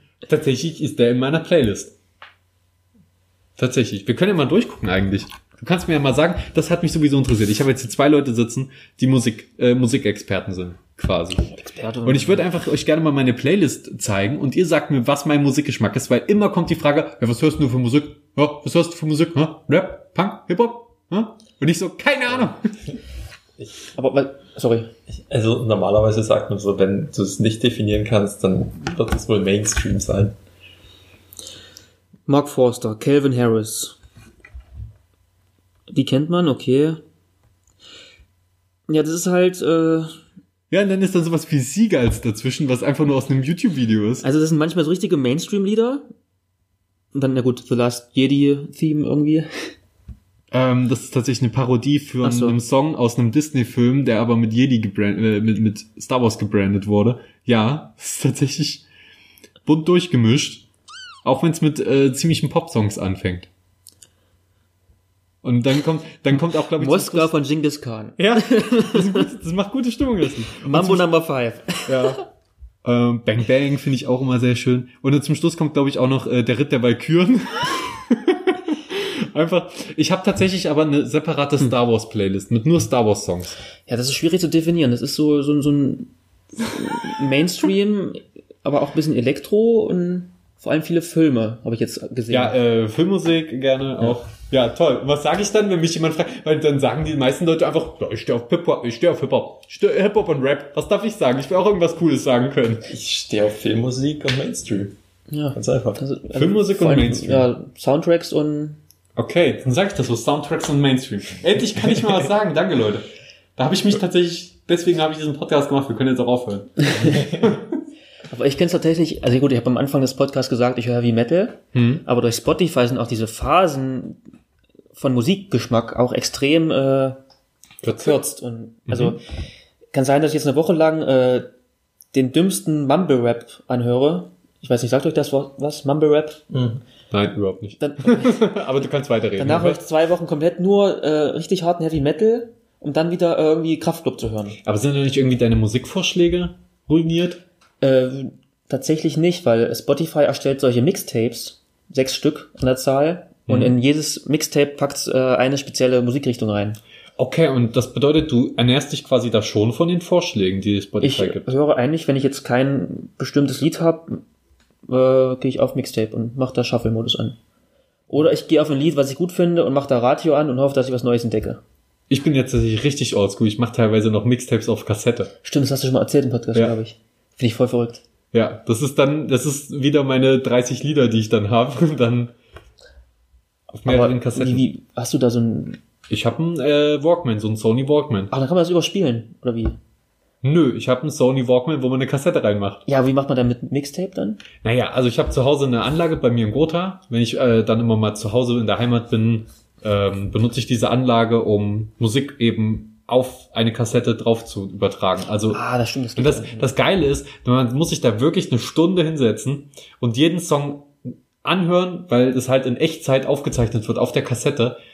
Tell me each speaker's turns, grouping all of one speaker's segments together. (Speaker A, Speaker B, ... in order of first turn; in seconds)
Speaker A: 0.3-1.9, 3.6-11.5, 12.1-22.9, 40.7-44.2, 50.5-58.9, 59.6-60.6, 61.2-63.5, 65.4-67.3, 68.2-71.0, 71.9-72.2, 72.8-83.6, 92.3-102.9, 106.3-107.5, 109.2-113.0, 113.6-117.7, 121.7-122.0, 127.8-128.2, 128.9-129.2, 137.1-139.8, 144.6-147.4, 153.5-153.8, 157.2-161.5, 172.1-175.3, 178.3-182.3, 183.8-184.7, 186.1-188.3, 190.4-192.8, 194.6-205.6, 206.2-214.8
Speaker B: 11.5-12.4, 23.9-24.9, 32.3-34.0, 35.9-37.0, 38.9-40.1, 44.2-46.1, 47.1-49.7, 52.2-52.6, 66.7-69.3, 70.6-72.1, 83.9-92.5, 105.3-108.8, 116.9-117.2, 118.3-124.2, 124.9-127.2, 127.9-129.2, 129.9-131.5, 132.1-136.4, 137.8-138.5, 139.4-144.6, 147.8-156.8, 161.0-164.2, 164.9-167.4, 168.1-171.6, 175.4-178.0, 183.8-185.8, 188.3-189.8, 192.9-194.4, 205.5-206.7
Speaker C: 25.1-30.4, 102.9-105.0, 105.5-106.0, 136.5-136.8